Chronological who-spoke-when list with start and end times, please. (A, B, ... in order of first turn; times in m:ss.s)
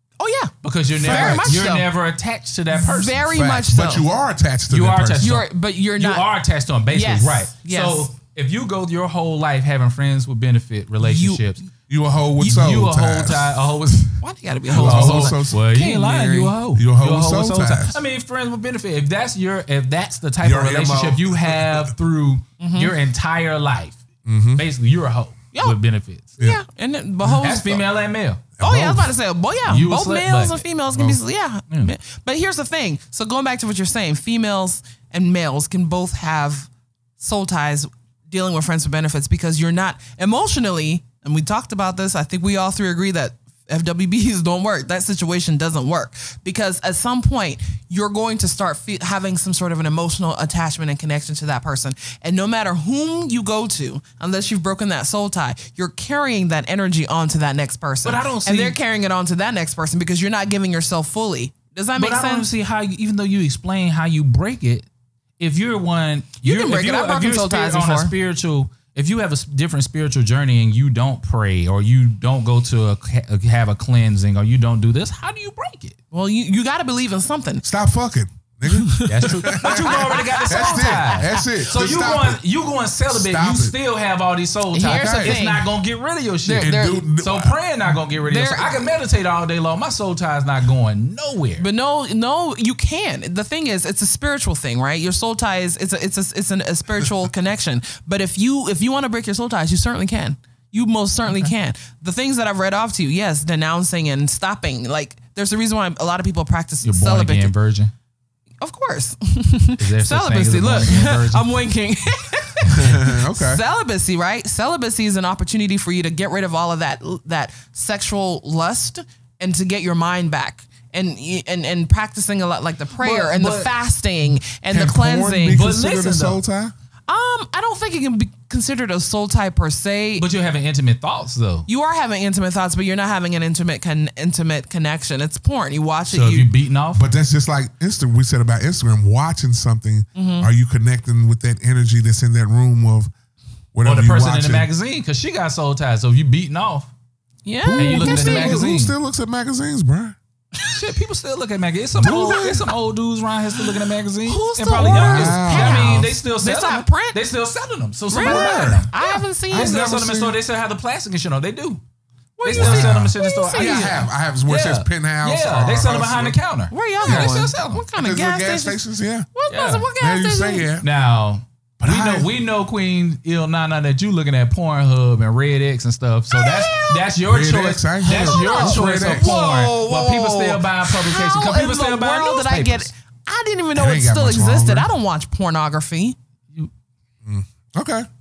0:00.2-0:01.9 A
0:00.6-0:03.3 B
0:01.0-0:01.6 C
0:02.7-0:04.1 A
0:03.3-0:05.4 C
0:04.7-0:11.6 B
0:05.2-0:06.2 A
0:06.9-0:08.1 A
0:11.0-0:11.4 A
0:11.9-0:13.6 C
0:12.4-0:24.0 B
0:14.2-0:16.5 A
0:14.7-0:15.6 C
0:16.7-0:18.0 C
0:20.4-0:21.9 C
0:22.6-0:22.9 A
0:24.2-0:24.6 C
0:24.6-0:26.4 B
0:26.4-0:27.8 A
0:27.3-0:28.5 B
0:28.6-0:29.1 C
0:28.6-1:02.5 A
0:29.6-0:30.6 B
0:30.9-0:31.2 C
0:58.0-0:58.8 B
1:02.0-1:04.9 B
1:05.4-1:16.0 B
1:06.4-1:08.1 A
1:16.1-1:17.6 A
1:17.6-1:22.4 C
1:18.7-1:21.4 A
1:19.0-1:31.7 B
1:23.1-1:23.8 C
1:24.7-1:25.7 A
1:24.9-1:25.4 C
1:26.4-1:27.1 A
1:26.6-1:27.6 C
1:28.0-1:28.9 A
1:31.6-1:47.5 A
1:46.8-1:47.9 B
1:48.6-2:05.6 A
1:49.8-1:51.5 B
1:52.7-1:53.6 C
2:03.0-2:03.7 B
2:04.7-2:06.7 C
2:05.5-2:06.4 B
2:07.1-2:10.3 A
2:10.2-2:11.7 B
2:11.7-2:16.5 A
2:16.1-2:17.0 B
2:16.9-2:23.1 C
2:20.2-2:20.5 A
2:23.7-2:24.7 C
2:23.8-2:26.9 B
2:27.4-2:28.7 A
2:27.6-2:30.2 C
2:27.8-2:28.9 B
2:30.6-2:30.8 A
2:30.7-2:41.8 B
2:32.0-2:32.7 C
2:34.2-2:37.2 A
2:34.8-2:36.1 C
2:38.1-2:39.8 A
2:38.2-2:38.9 C
2:39.5-2:40.4 C
2:42.4-2:44.1 A
2:42.4-2:47.8 B
2:42.5-2:46.4 C
2:46.7-2:48.8 A
2:47.0-2:49.3 C
2:49.4-2:50.7 A
2:49.5-2:49.9 B
2:50.0-2:50.9 C
2:50.8-3:02.9 B
2:51.8-2:52.3 C
2:56.3-2:57.1 A
2:57.2-2:59.3 C
2:58.0-3:06.2 A
3:03.7-3:04.9 C
3:07.2-3:08.1 C